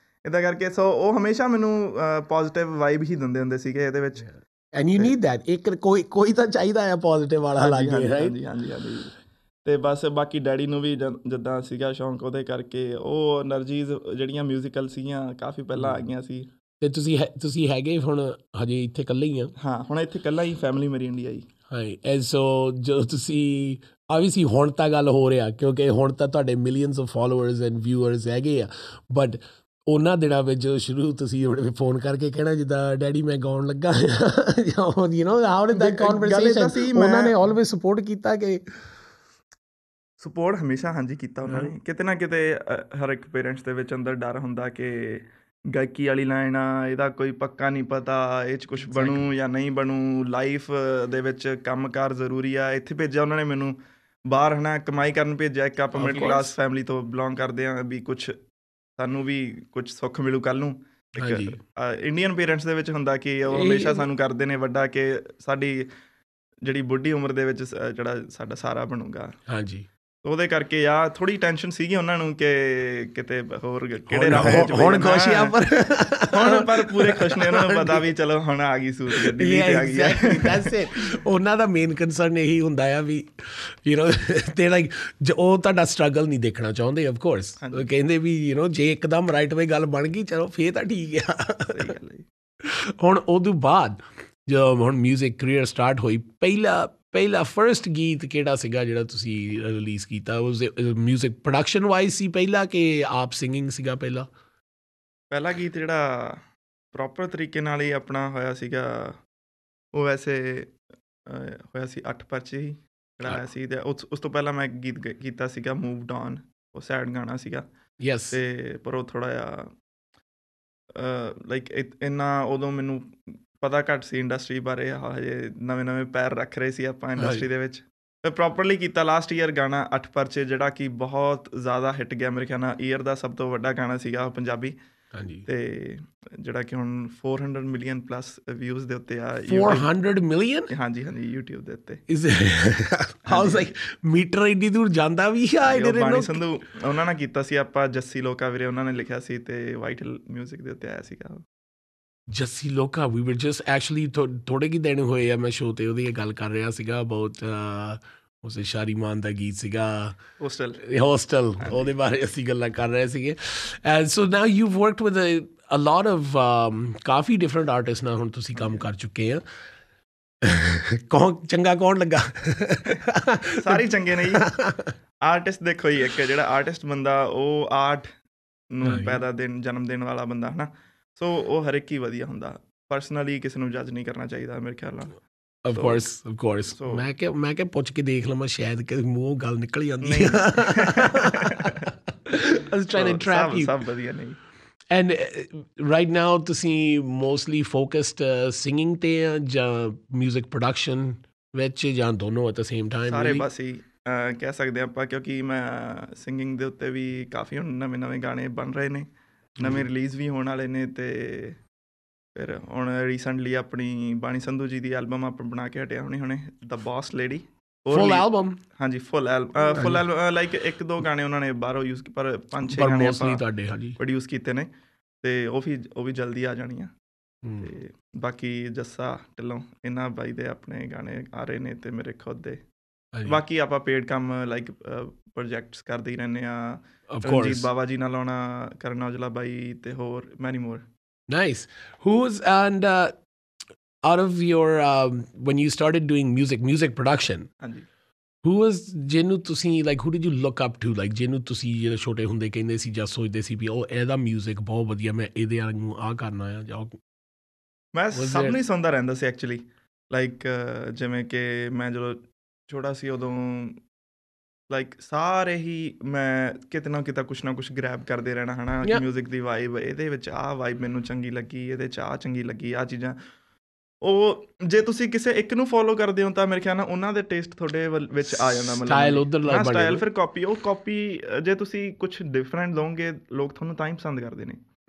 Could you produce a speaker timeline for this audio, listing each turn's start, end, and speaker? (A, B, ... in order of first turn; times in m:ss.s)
0:00.2-0:04.3 A
0:04.2-0:08.4 B
0:07.6-0:09.1 A
0:09.6-0:16.5 A
0:16.8-0:19.5 B
0:19.6-0:21.5 A
0:21.7-0:38.6 B
0:35.7-0:37.4 A
0:40.2-0:53.8 A
0:41.5-0:41.7 B
0:48.8-0:49.3 B
0:54.3-0:58.4 A
0:55.9-0:56.6 B
0:59.0-1:05.9 A
1:01.2-1:01.6 B
1:03.5-1:04.1 B
1:06.6-1:09.3 A
1:09.5-1:09.9 B
1:10.2-1:15.6 A
1:14.1-1:18.1 B
1:16.3-1:20.8 A
1:19.1-1:31.9 B
1:27.6-1:27.9 A
1:31.7-1:32.3 A
1:32.6-1:44.3 B
1:45.3-1:46.4 A
1:46.9-1:49.2 A
1:50.0-1:57.7 A
1:58.0-1:58.4 B
1:58.3-1:59.7 A
2:01.0-2:14.8 A
2:07.2-2:07.5 B
2:15.1-2:15.5 B
2:15.5-2:19.9 A
2:19.5-2:20.7 B
2:20.7-2:22.0 A
2:22.1-2:26.4 B
2:23.3-2:23.7 A
2:25.7-2:31.4 A
2:32.3-2:40.2 B
2:40.4-2:40.8 A
2:40.8-2:49.4 B
2:41.6-2:41.9 A
2:48.6-2:48.8 A
2:50.4-2:53.8 B
2:53.6-2:54.5 A
2:54.3-2:54.9 B
2:55.2-2:58.1 A
2:58.7-3:05.2 A
2:58.8-2:59.2 B
3:05.6-3:13.8 B
3:05.7-3:06.0 A
3:06.7-3:07.1 A
3:10.0-3:11.9 A
3:12.9-3:14.4 A
3:14.9-3:23.5 B
3:23.1-3:31.6 A
3:29.6-3:29.8 B
3:32.4-3:43.4 A
3:37.9-3:38.6 B
3:39.7-3:40.0 B
3:42.7-3:44.0 B
3:44.0-3:44.7 A
3:45.2-3:46.9 A
3:47.4-3:47.7 B
3:47.6-3:52.6 A
3:53.1-3:53.4 B
3:53.2-4:00.8 A
3:57.1-3:57.7 B
4:01.3-4:03.2 B
4:04.1-4:07.5 B
4:07.6-4:07.9 A
4:08.4-4:17.0 B
4:17.9-4:23.8 A
4:18.1-4:18.6 B
4:24.7-4:33.2 A
4:34.0-4:44.6 A
4:38.3-4:40.0 B